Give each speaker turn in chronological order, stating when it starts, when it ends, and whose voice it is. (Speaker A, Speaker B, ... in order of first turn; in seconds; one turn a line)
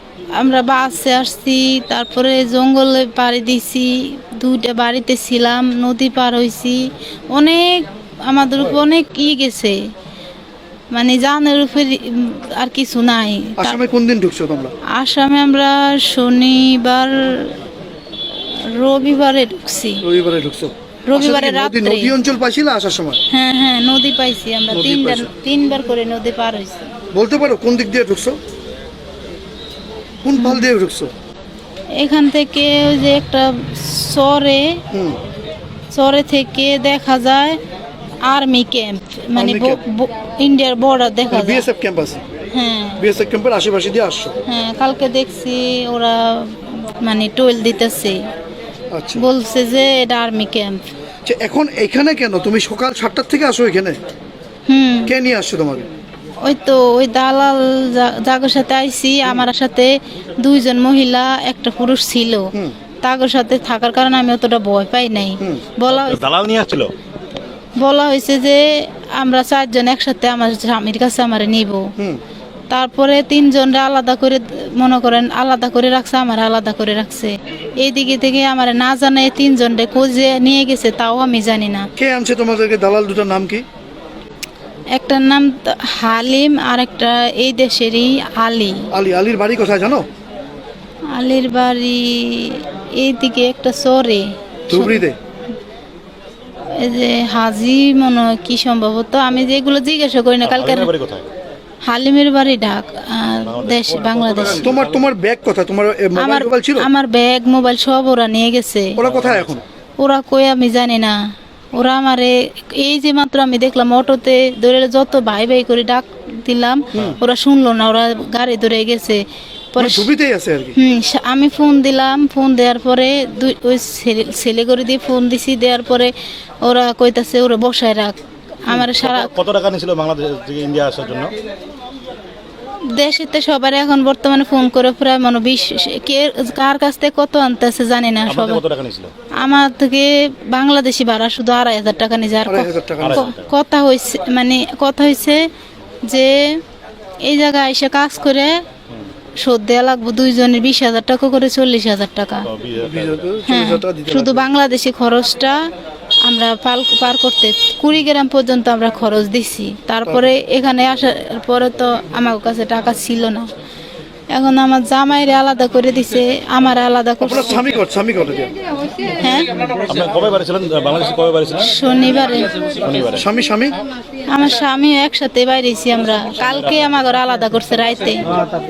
Speaker A: 0.3-9.8
Speaker A: 10.9-13.8
Speaker B: 13.6-14.7
Speaker A: 14.9-17.5
Speaker A: 18.3-20.0
Speaker B: 20.0-23.2
Speaker A: 21.1-22.1
Speaker A: 23.3-26.9
Speaker B: 24.7-25.3
Speaker B: 27.1-28.4
Speaker B: 30.2-31.1
Speaker A: 30.4-30.6
Speaker A: 31.9-34.8
Speaker B: 34.9-35.2
Speaker A: 35.9-37.6
Speaker A: 38.2-41.6
Speaker B: 39.4-39.8
Speaker B: 41.3-42.2
Speaker A: 42.5-43.0
Speaker B: 43.0-44.4
Speaker A: 44.5-48.2
Speaker B: 48.9-49.3
Speaker A: 49.1-50.9
Speaker B: 51.2-54.0
Speaker A: 54.7-55.1
Speaker B: 55.0-55.9
Speaker A: 56.4-62.5
Speaker A: 63.0-66.2
Speaker B: 65.4-65.6
Speaker C: 65.9-66.9
Speaker A: 67.8-71.9
Speaker A: 72.7-81.9
Speaker B: 82.0-83.6
Speaker A: 84.9-88.9
Speaker B: 88.9-90.0
Speaker A: 91.1-95.0
Speaker B: 94.7-95.2
Speaker A: 96.7-100.9
Speaker C: 100.4-101.3
Speaker A: 101.8-104.7
Speaker C: 103.5-105.0
Speaker B: 104.4-106.9
Speaker A: 106.2-109.0
Speaker B: 109.0-109.6
Speaker C: 109.0-109.6
Speaker A: 110.0-111.2
Speaker A: 111.7-120.1
Speaker B: 119.8-120.8
Speaker A: 120.8-129.3
Speaker C: 128.8-131.3
Speaker A: 132.9-138.6
Speaker C: 138.3-139.1
Speaker A: 139.3-145.5
Speaker B: 142.4-143.3
Speaker C: 143.0-143.5
Speaker A: 146.1-146.6
Speaker A: 147.2-148.6
Speaker A: 149.4-152.5
Speaker C: 152.4-153.3
Speaker B: 152.8-154.5
Speaker A: 153.5-155.6
Speaker A: 156.2-163.5
Speaker B: 160.1-160.3
Speaker A: 164.3-167.6
Speaker B: 167.2-168.5
Speaker A: 169.1-169.5
Speaker C: 169.8-171.7
Speaker A: 171.6-172.5
Speaker C: 172.8-173.2
Speaker B: 173.2-173.8
Speaker A: 174.3-178.4
Speaker C: 176.4-176.9